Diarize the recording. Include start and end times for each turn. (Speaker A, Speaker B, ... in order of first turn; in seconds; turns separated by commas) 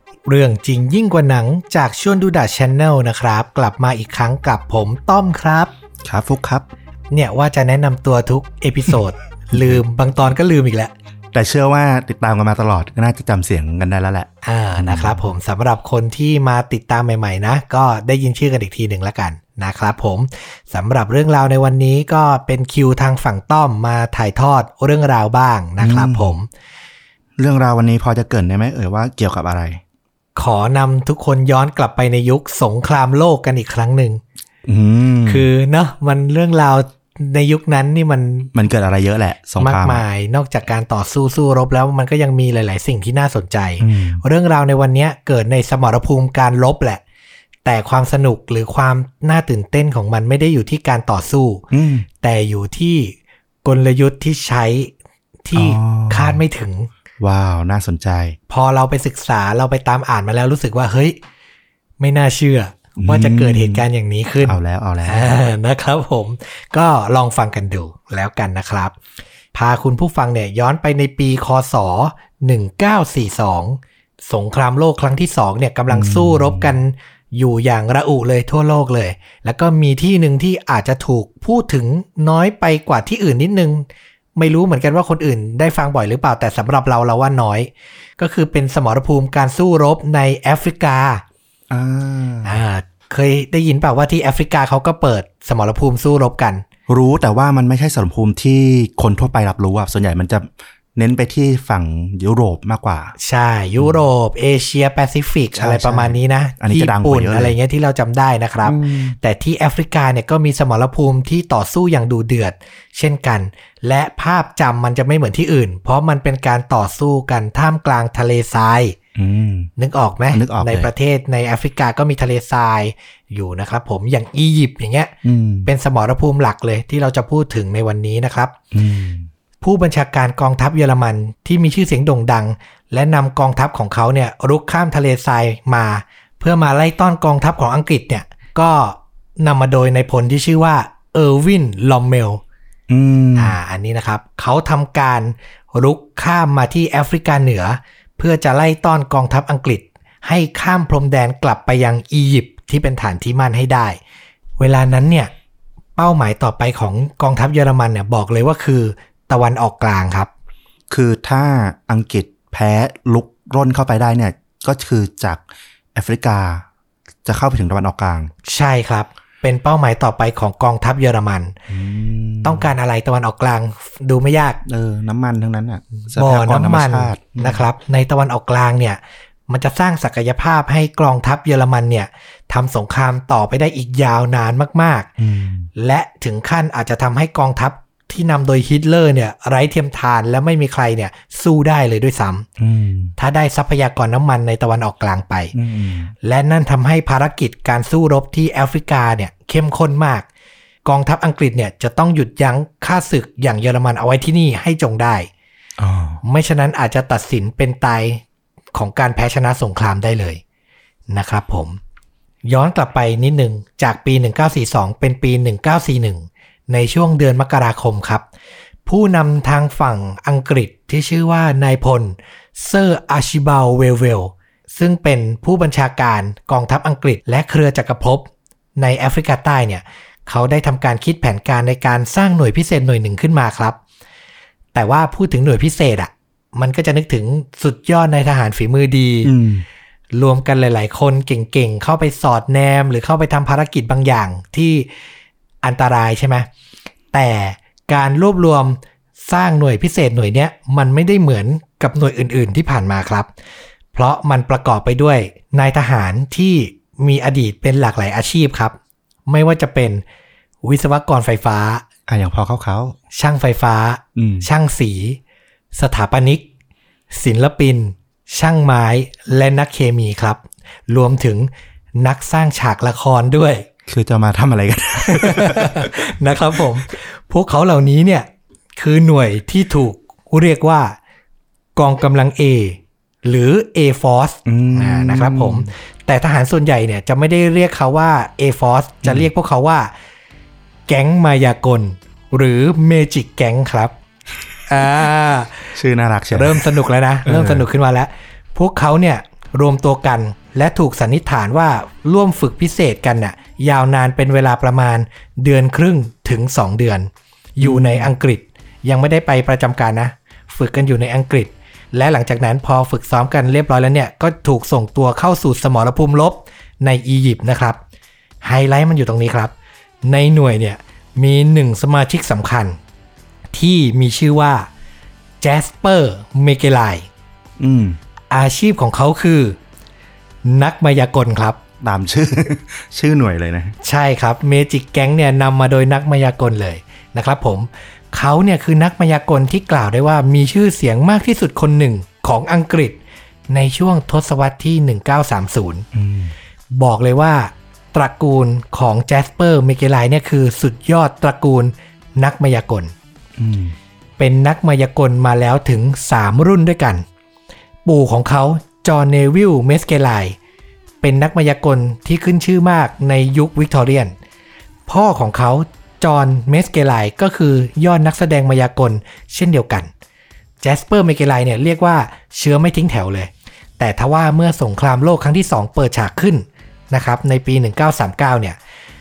Speaker A: 0.3-5.7, Speaker B: 6.0-6.7, Speaker A: 7.1-10.9, Speaker B: 9.5-9.8, Speaker B: 11.3-15.3, Speaker A: 14.4-26.5, Speaker B: 25.8-26.3, Speaker B: 27.4-29.8, Speaker A: 30.3-34.2, Speaker B: 34.7-35.5, Speaker A: 35.3-38.5, Speaker B: 38.5-40.0, Speaker A: 39.6-47.0, Speaker B: 43.8-44.2, Speaker A: 47.6-51.6, Speaker B: 51.7-52.0, Speaker A: 52.2-54.9, Speaker A: 55.4-56.9, Speaker B: 55.5-56.4, Speaker B: 57.2-58.4, Speaker A: 58.5-61.2, Speaker A: 62.0-68.9, Speaker B: 63.0-63.9, Speaker B: 64.4-65.3, Speaker A: 69.5-91.2, Speaker B: 75.9-76.8, Speaker B: 91.7-92.6, Speaker A: 92.4-96.6, Speaker B: 96.9-103.1, Speaker A: 103.2-119.0, Speaker B: 103.8-104.0, Speaker B: 105.5-107.5, Speaker B: 108.6-109.2, Speaker B: 119.2-119.7, Speaker A: 119.8-125.1, Speaker B: 120.3-120.9, Speaker B: 125.2-125.7, Speaker A: 125.6-128.6, Speaker B: 128.7-129.3, Speaker A: 129.6-142.4, Speaker B: 142.9-143.6, Speaker A: 143.4-154.0, Speaker A: 154.6-155.3, Speaker A: 156.0-160.3, Speaker B: 160.9-165.4, Speaker B: 165.9-166.7, Speaker B: 167.2-168.3, Speaker A: 168.4-171.6, Speaker B: 171.7-172.7, Speaker A: 172.4-174.6, Speaker B: 174.7-177.6, Speaker A: 176.2-185.1, Speaker B: 185.2-185.7, Speaker A: 185.8-192.5, Speaker B: 192.6-193.1, Speaker A: 193.2-195.5, Speaker B: 195.5-196.1, Speaker A: 196.2-200.3, Speaker A: 200.8-205.3, Speaker B: 205.8-206.2, Speaker A: 206.2-208.2, Speaker A: 208.8-210.4, Speaker A: 211.1-211.8, Speaker A: 212.4-218.2, Speaker A: 218.9-233.8, Speaker A: 234.7-239.3, Speaker B: 239.2-239.7, Speaker A: 240.1-244.9, Speaker A: 245.6-246.5, Speaker A: 247.1-253.3, Speaker A: 253.9-258.8, Speaker A: 259.3-260.0, Speaker A: 260.6-261.8, Speaker B: 262.1-262.9, Speaker A: 263.1-265.2, Speaker B: 264.2-264.5, Speaker A: 265.8-266.4, Speaker A: 267.1-273.7, Speaker B: 273.9-276.0, Speaker A: 275.0-280.9, Speaker A: 281.8-289.9, Speaker B: 284.4-285.7, Speaker B: 289.0-289.3, Speaker A: 290.9-293.9, Speaker A: 294.7-295.8, Speaker B: 295.7-297.7, Speaker A: 296.3-317.8, Speaker B: 307.6-308.1, Speaker A: 318.4-322.8, Speaker A: 323.5-324.7, Speaker A: 325.4-327.1, Speaker B: 327.6-328.0, Speaker A: 328.3-329.6, Speaker A: 330.4-331.6, Speaker B: 331.8-333.8, Speaker A: 333.8-345.9, Speaker B: 345.9-346.3, Speaker A: 346.7-352.9, Speaker B: 353.4-353.8, Speaker A: 354.2-357.1, Speaker A: 357.9-360.4, Speaker A: 361.0-364.1, Speaker A: 364.9-369.9, Speaker A: 370.6-378.6